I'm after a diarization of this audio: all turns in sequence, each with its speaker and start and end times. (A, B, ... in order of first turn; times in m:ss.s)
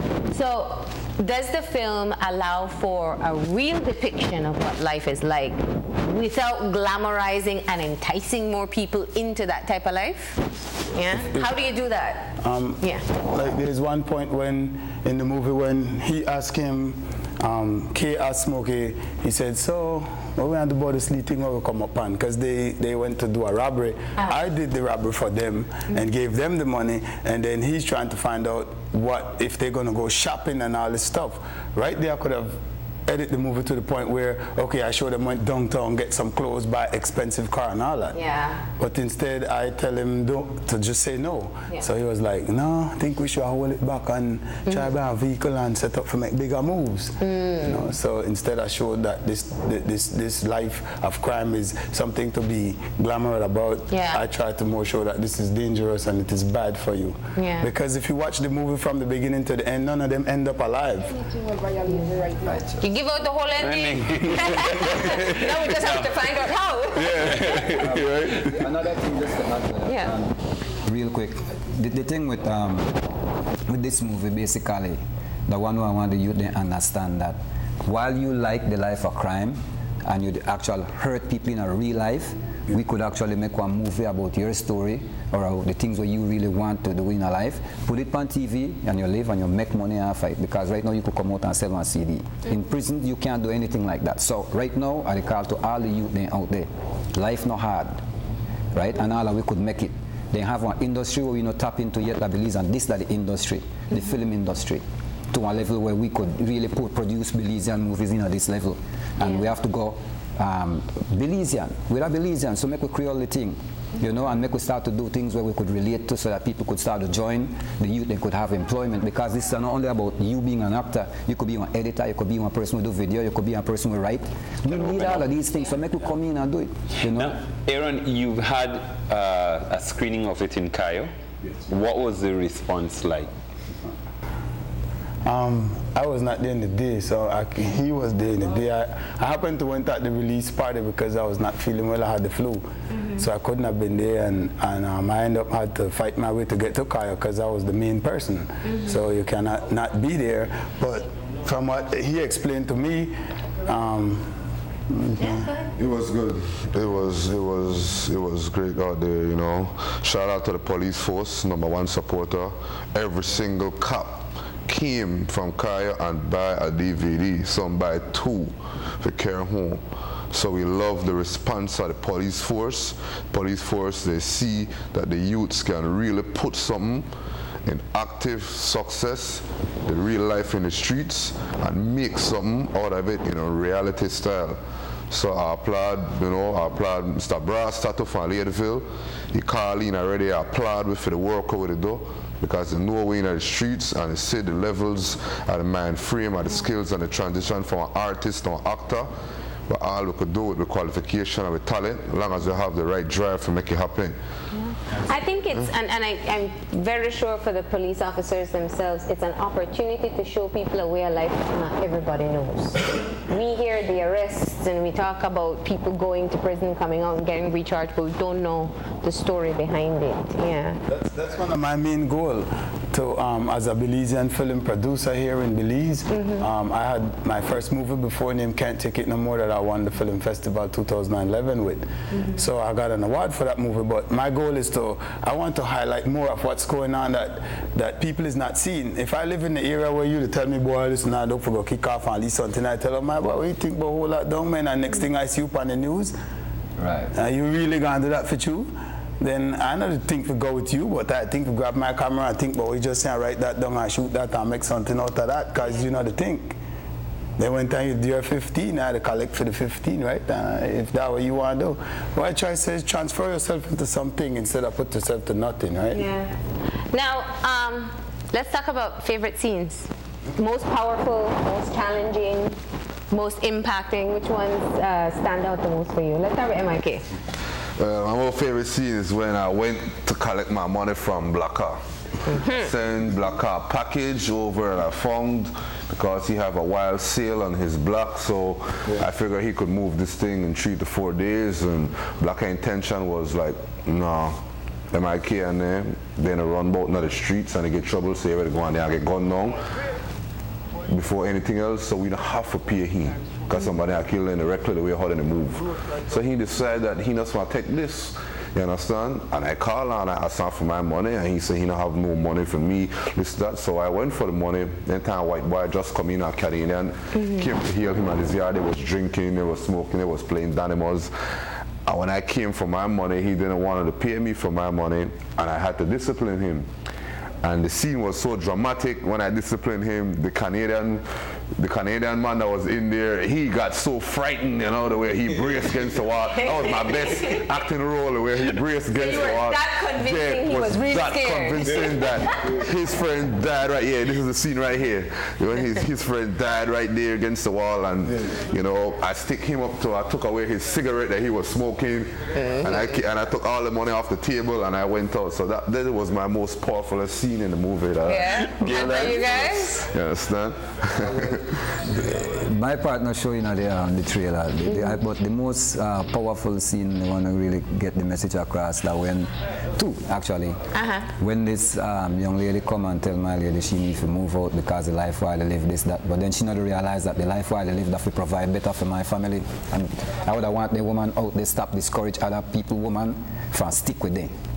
0:00.3-0:13.0 A
0:12.4-0:38.2 B
0:38.1-0:38.6 A
0:38.8-1:01.3 B
0:47.2-0:47.8 A
0:53.9-0:54.2 A
0:57.4-0:57.7 A
1:01.9-1:07.6 A
1:02.4-1:02.8 C
1:03.6-1:06.1 D
1:07.0-1:08.3 D
1:07.4-1:13.0 C
1:09.8-1:10.1 A
1:13.7-1:38.0 C
1:38.7-2:07.4 C
1:49.2-1:49.4 A
2:07.1-2:11.1 D
2:11.6-2:13.3 D
2:15.2-2:35.6 B
2:35.3-2:35.6 A
2:35.7-2:57.1 E
2:57.6-3:04.6 E
3:05.1-3:19.1 E
3:19.7-3:24.2 E
3:24.5-3:40.8 A
3:40.9-4:06.1 B
3:46.1-3:46.5 A
4:06.8-4:07.1 C
4:07.1-4:16.6 B
4:17.4-4:26.0 B
4:25.9-4:26.3 A
4:26.9-4:32.6 A
4:33.1-4:37.1 A
4:37.8-4:41.8 E
4:42.3-4:42.7 A
4:42.3-4:54.4 E
4:54.9-4:59.6 E
5:00.9-5:21.1 E
5:17.1-5:17.4 A
5:21.8-5:26.7 E
5:27.4-5:31.0 E
5:31.6-5:59.2 E
5:36.4-5:37.4 A
5:38.9-5:42.5 A
5:52.4-5:52.8 A
5:58.1-5:59.8 A
5:58.6-5:59.6 D
5:59.7-6:01.4 E
6:01.2-6:10.6 C
6:10.7-6:11.1 A
6:11.2-6:24.3 C